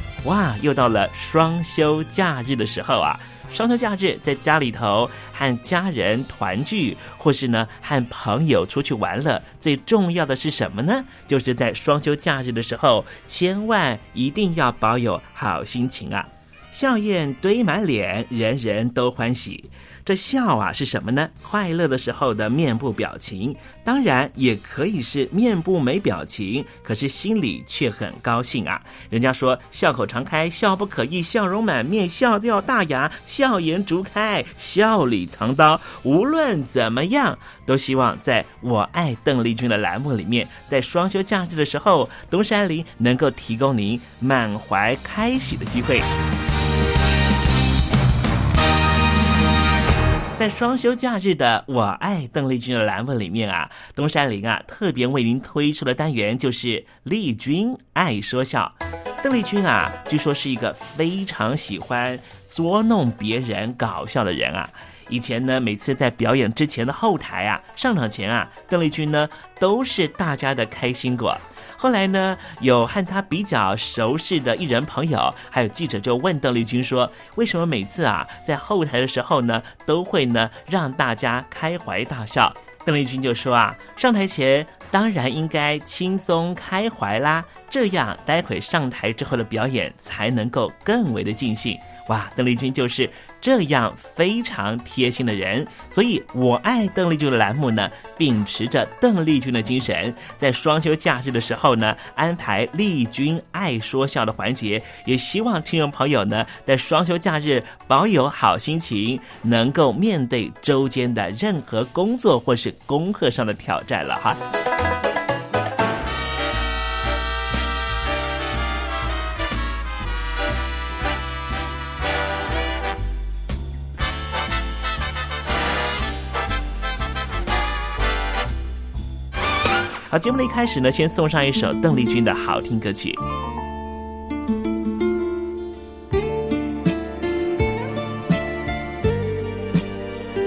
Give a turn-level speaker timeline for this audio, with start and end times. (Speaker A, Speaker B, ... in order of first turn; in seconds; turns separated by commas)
Speaker A: 0.2-46.0, Speaker A: 50.4-114.4, Speaker A: 130.1-133.2